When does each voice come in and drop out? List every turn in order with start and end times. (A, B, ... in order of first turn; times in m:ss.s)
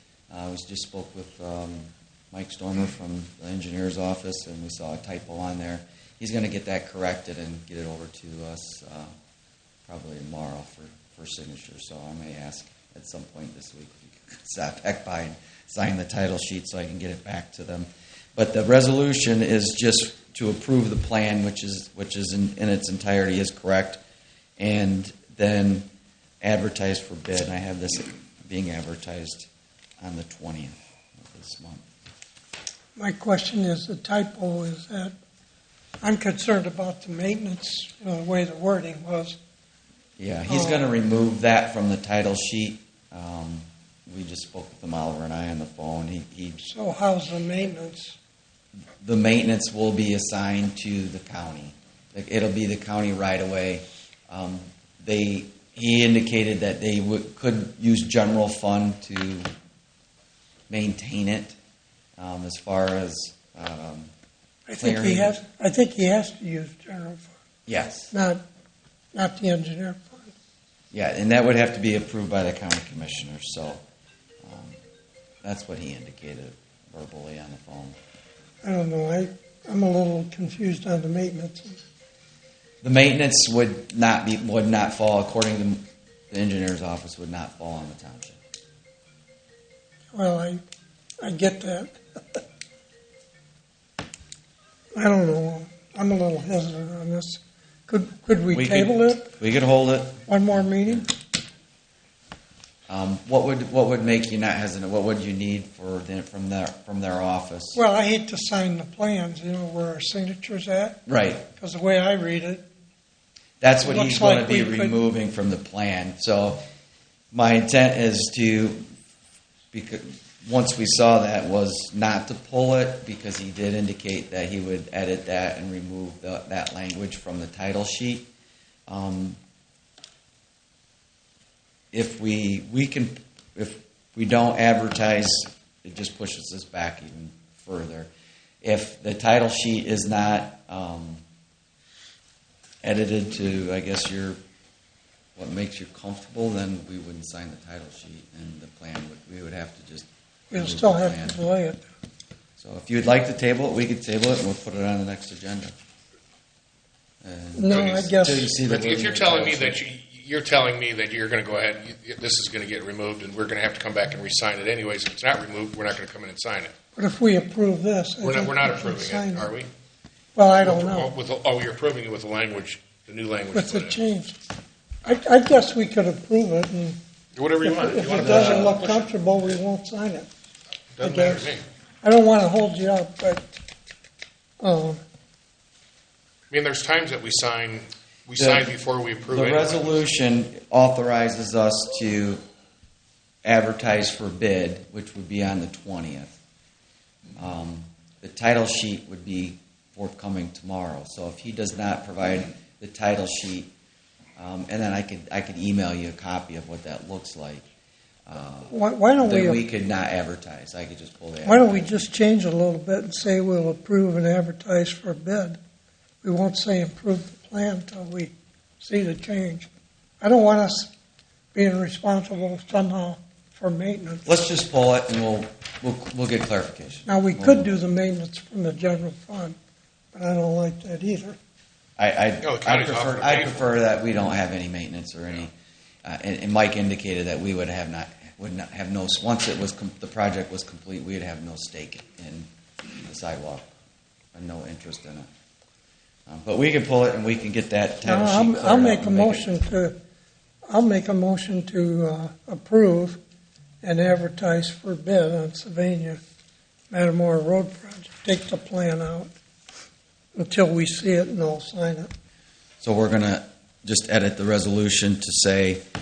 0:00.3-0:09.1 A
0:09.9-0:24.0 A
0:24.6-0:25.8 A
0:26.4-0:29.5 A
0:30.0-0:31.8 A
0:33.0-0:35.1 B
0:36.0-0:39.4 B
0:40.2-0:46.6 A
0:40.5-0:40.8 B
0:46.6-0:48.2 B
0:49.0-0:59.5 A
1:00.7-1:01.6 A
1:02.2-1:04.1 A
1:04.7-1:07.3 B
1:04.8-1:05.4 A
1:07.7-1:08.1 A
1:08.1-1:08.4 B
1:09.1-1:10.3 B
1:10.9-1:13.8 A
1:14.4-1:14.8 A
1:15.4-1:18.0 A
1:18.6-1:21.8 B
1:22.8-1:28.4 A
1:30.1-1:30.6 B
1:31.2-1:32.4 B
1:34.9-1:39.3 B
1:38.5-1:40.2 A
1:40.3-1:41.1 B
1:42.9-1:47.8 A
1:47.7-1:51.0 B
1:51.1-1:51.5 A
1:51.6-1:52.6 B
1:53.6-1:56.6 A
1:53.8-1:55.0 B
1:57.3-1:58.8 A
1:59.7-2:08.3 A
2:08.9-2:09.4 A
2:11.9-2:18.1 A
2:18.6-2:21.2 A
2:22.8-2:24.4 A
2:25.4-2:31.4 A
2:30.5-2:31.9 B
2:32.6-2:35.7 A
2:37.2-2:39.8 A
2:37.5-2:38.5 B
2:37.7-2:38.0 C
2:38.5-2:46.7 C
2:47.0-2:49.5 B
2:48.2-2:49.7 C
2:50.3-2:51.1 B
2:50.6-2:54.0 C
2:53.5-2:54.4 B
2:55.0-2:57.0 B
2:57.3-2:59.1 C
2:57.6-3:00.3 B
3:01.0-3:01.6 C
3:01.0-3:01.5 B
3:02.0-3:03.4 B
3:04.6-3:05.0 B
3:06.5-3:10.0 C
3:08.4-3:08.7 A
3:09.3-3:12.4 A
3:13.4-3:16.4 A
3:17.4-3:23.7 A
3:24.4-3:27.6 A
3:28.3-3:32.1 A
3:28.7-3:29.6 B
3:31.4-3:35.6 B
3:36.2-3:39.7 B
3:40.2-3:40.9 B
3:41.5-3:44.3 B
3:44.2-3:47.7 A
3:47.0-3:49.6 B
3:50.1-3:51.4 B
3:52.0-3:55.5 A
3:52.4-3:53.6 C
3:56.0-4:02.5 A
4:03.0-4:03.7 A
4:04.3-4:05.3 A
4:06.3-4:09.6 A
4:08.0-4:10.0 B
4:10.7-4:13.2 B
4:13.8-4:16.2 B
4:16.9-4:19.3 B
4:20.4-4:22.1 B
4:22.8-4:25.8 A